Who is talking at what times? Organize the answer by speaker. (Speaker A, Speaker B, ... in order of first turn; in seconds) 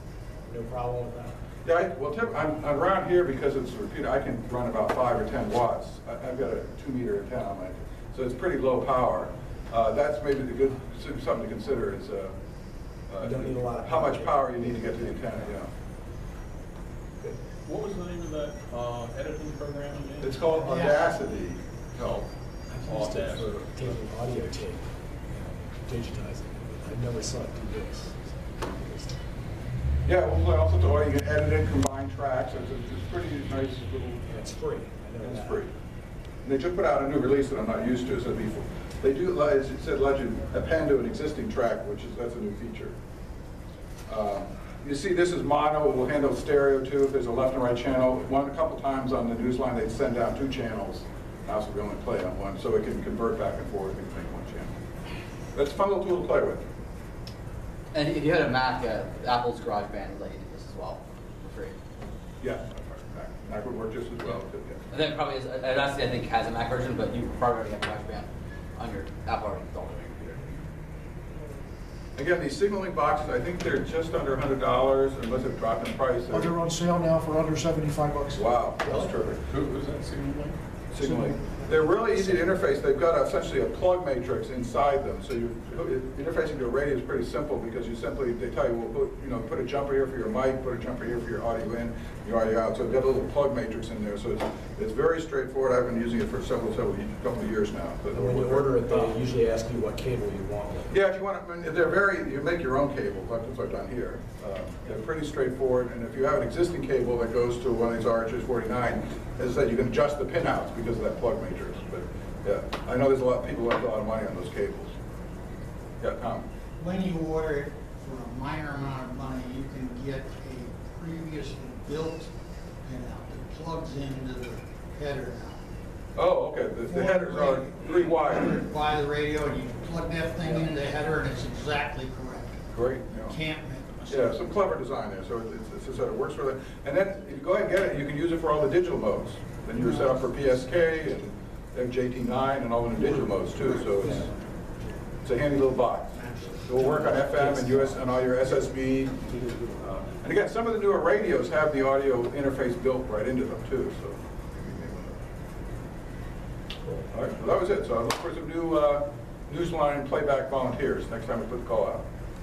Speaker A: 0.4-1.4, 13.2-15.3, 17.2-17.4, 22.7-25.1, 25.7-29.2, 34.2-35.6, 98.1-100.9, 149.3-149.7
Speaker B: 1.6-12.3, 13.1-15.7, 20.2-22.3, 30.0-34.3, 35.2-35.7, 36.4-43.0, 44.1-54.7, 55.5-56.6, 62.4-64.8, 72.2-76.6, 78.3-79.4, 80.9-99.1, 100.9-115.0, 116.0-116.5, 126.1-128.6, 132.7-133.4, 134.1-144.3, 145.2-149.2, 149.8-155.2, 157.1-162.1
Speaker C: 17.7-20.4, 23.1-23.5, 79.7-80.6
Speaker D: 18.0-20.4, 22.9-23.4, 76.3-78.5, 79.5-80.0, 81.0-81.3
Speaker E: 20.6-21.2, 116.8-122.3, 122.8-125.6, 126.9-132.6, 133.3-134.4, 139.8-140.8, 142.9-145.1, 146.1-148.4
Speaker F: 57.9-61.8, 64.9-70.5